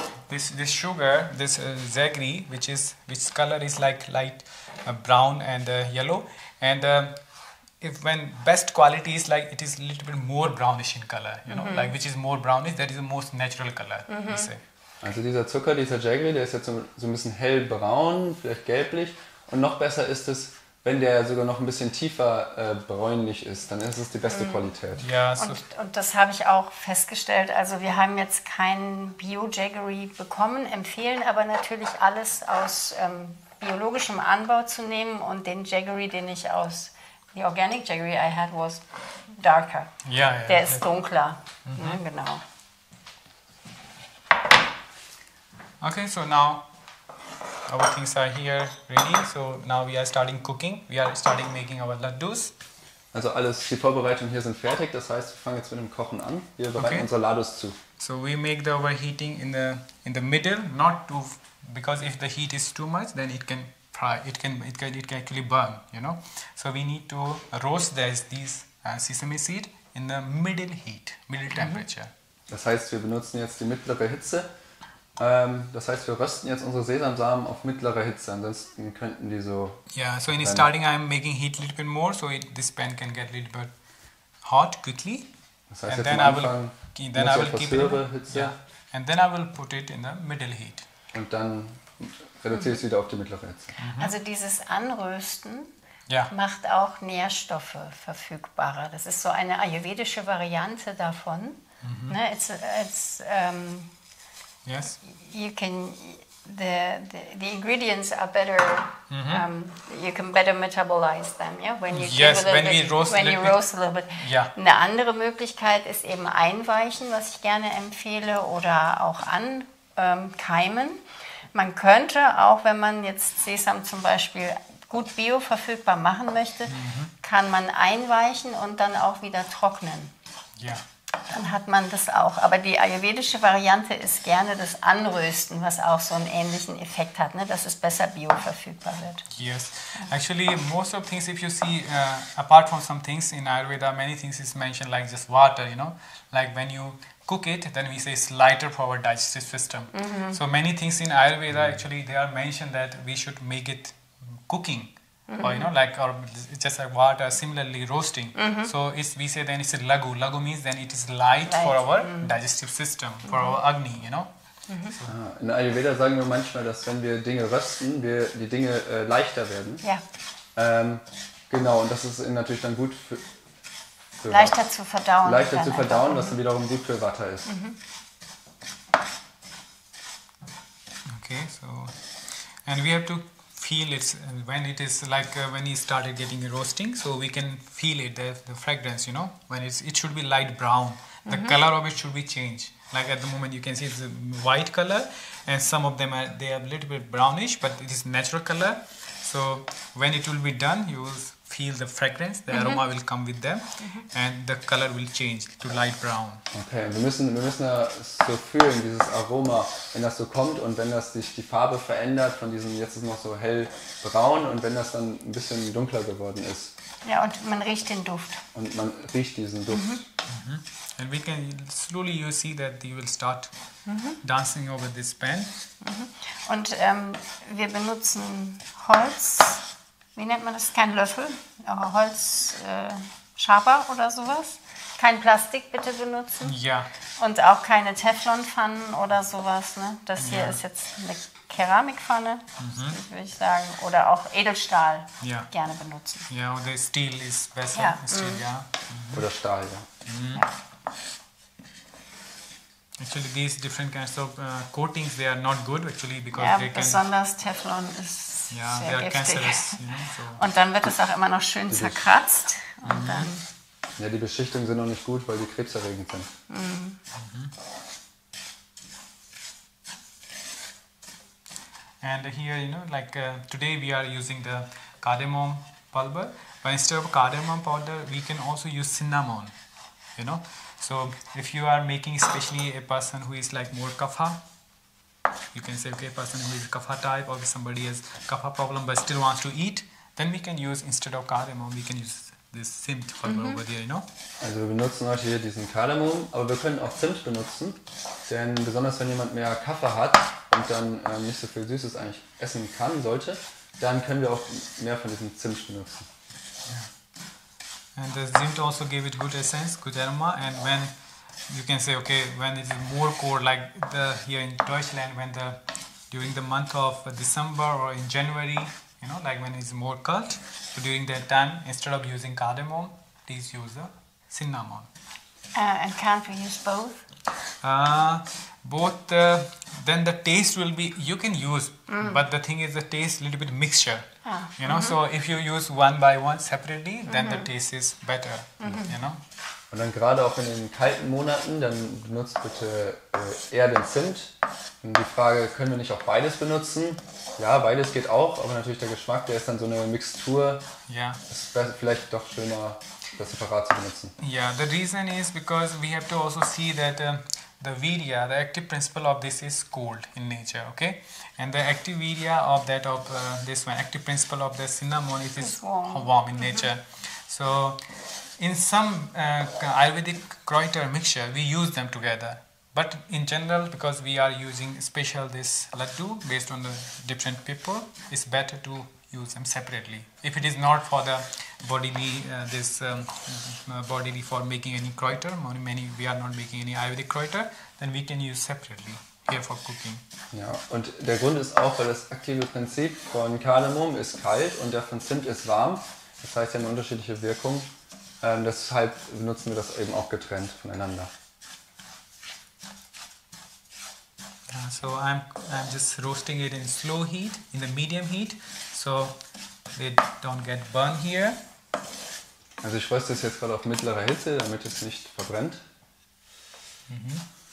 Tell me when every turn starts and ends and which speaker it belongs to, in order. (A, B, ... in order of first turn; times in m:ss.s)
0:00.3-0:07.2 A
0:07.8-0:14.6 A
0:11.5-0:11.9 B
0:14.1-0:14.5 B
0:15.0-0:25.1 C
0:24.3-0:24.6 B
0:25.0-0:25.6 A
0:25.4-0:40.0 B
0:40.0-0:40.9 A
0:40.5-0:42.4 B
0:41.7-0:42.0 A
0:45.8-0:46.7 A
0:47.7-0:52.5 A
0:53.1-0:57.8 C
0:56.8-0:57.1 A
0:58.0-1:12.1 A
1:12.5-1:14.5 C
1:15.2-1:20.7 C
1:19.9-1:23.7 A
1:24.4-1:25.3 A
1:25.7-1:28.5 C
1:25.9-1:30.9 A
1:31.1-1:33.8 C
1:33.8-1:34.1 A
1:33.9-1:35.7 B
1:36.3-1:43.9 B
1:41.8-1:42.2 A
1:44.6-1:45.0 A
1:45.0-2:01.0 B
1:49.1-1:49.5 A
1:51.9-1:54.5 A
2:01.5-2:10.1 B
2:06.7-2:07.1 A
2:10.6-2:10.8 A
2:11.3-2:19.3 B
2:19.3-2:44.3 A
2:29.9-2:30.4 B
2:35.3-2:35.7 B
2:38.4-2:38.7 B
2:41.5-2:42.3 B
2:43.3-2:43.6 B
2:44.7-2:44.9 B
2:45.1-2:49.8 C
2:50.6-2:53.3 C
2:54.2-2:54.6 C
2:54.3-2:56.4 B
2:55.2-2:57.5 C
2:57.5-2:57.8 B
3:01.1-3:26.4 A
3:11.3-3:11.6 B
3:22.5-3:22.8 B
3:26.5-3:36.7 C
3:37.0-3:38.4 B
3:38.5-3:40.0 C
3:39.7-3:40.0 B
3:40.3-3:43.5 A
3:43.9-3:44.2 B
3:44.2-3:45.5 A
3:45.8-3:49.6 B
3:50.2-3:56.6 B
3:56.4-3:56.9 A
3:57.2-4:06.3 B
4:00.2-4:00.6 A
4:02.6-4:03.0 A
4:05.2-4:05.5 A
4:06.3-4:09.3 A
4:07.7-4:08.4 B
4:09.1-4:09.9 C
4:10.0-4:10.4 A
4:13.0-4:17.0 A
4:16.4-4:23.4 B
4:18.5-4:20.4 A
4:21.7-4:22.0 C
4:22.8-4:23.3 A
4:24.0-4:26.3 C
4:26.5-4:27.0 B
4:27.2-4:27.5 A
4:32.0-4:39.5 A
4:40.2-4:44.4 A
4:45.5-4:54.1 A
4:53.2-4:53.6 B
4:54.4-5:06.1 C
5:08.0-5:24.9 A
5:25.6-5:27.1 B
5:27.6-5:39.2 A
5:31.9-5:32.2 B
5:34.2-5:35.0 B
5:37.1-5:37.5 B
5:38.6-5:38.9 B
5:39.7-5:50.6 C
5:50.9-5:51.2 A
5:51.3-5:54.1 C
5:54.2-6:30.0 A
6:05.4-6:06.7 B
6:30.3-6:41.1 C
6:44.5-6:49.2 A
6:49.7-6:51.4 A
6:52.6-6:55.6 C
6:56.9-6:57.3 A